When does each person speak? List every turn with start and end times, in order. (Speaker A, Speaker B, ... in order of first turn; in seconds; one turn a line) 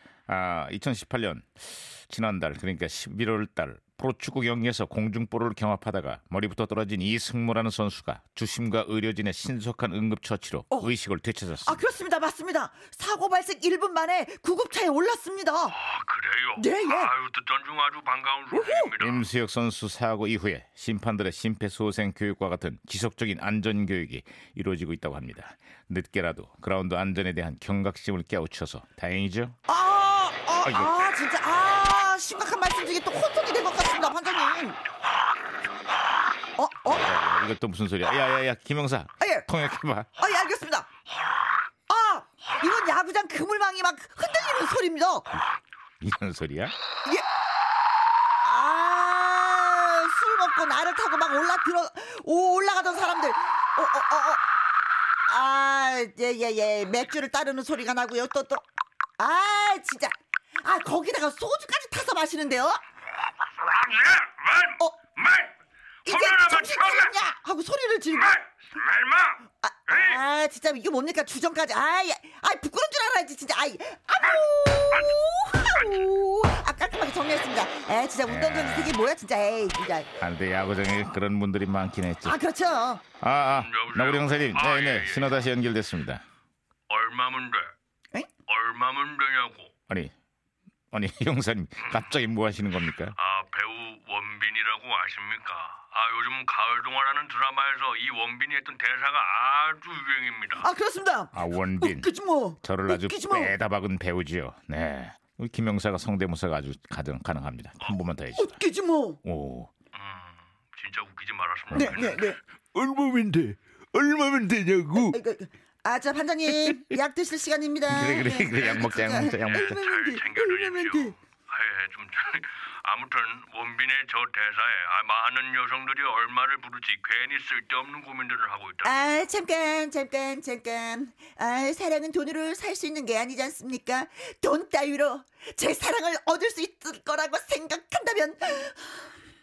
Speaker A: 0.3-11.8
Speaker B: 11.6-15.7
Speaker C: 15.7-19.3
Speaker B: 16.6-17.1
Speaker B: 18.5-18.9
Speaker A: 19.0-29.6
Speaker B: 29.7-34.8
Speaker A: 30.6-30.9
Speaker B: 36.5-37.1
Speaker A: 36.9-40.1
Speaker B: 39.2-39.5
Speaker B: 40.2-40.9
Speaker B: 41.9-45.4
Speaker A: 46.0-46.8
Speaker B: 48.4-54.4
Speaker B: 55.3-58.6
Speaker B: 59.2-62.8
Speaker C: 63.4-65.5
Speaker C: 66.0-67.2
Speaker B: 66.0-68.4
Speaker C: 68.1-70.2
Speaker B: 69.6-80.1
Speaker C: 74.2-75.1
Speaker C: 75.7-76.0
Speaker A: 78.2-79.0
Speaker A: 80.2-82.4
Speaker B: 82.2-83.0
Speaker A: 83.2-86.2
Speaker C: 83.5-85.3
Speaker C: 86.9-87.7
Speaker C: 88.5-89.7
Speaker A: 90.9-93.2
Speaker C: 91.8-92.1
Speaker C: 93.2-100.7
Speaker B: 100.6-103.5
Speaker A: 101.3-102.1
Speaker A: 102.6-108.6
Speaker B: 108.3-109.2
Speaker A: 109.2-109.7
Speaker C: 109.9-112.3
Speaker A: 111.7-112.0
Speaker B: 111.7-112.4
Speaker D: 112.7-115.2
Speaker B: 114.9-121.1
Speaker A: 117.9-119.7
Speaker C: 119.5-129.2
Speaker B: 128.8-139.1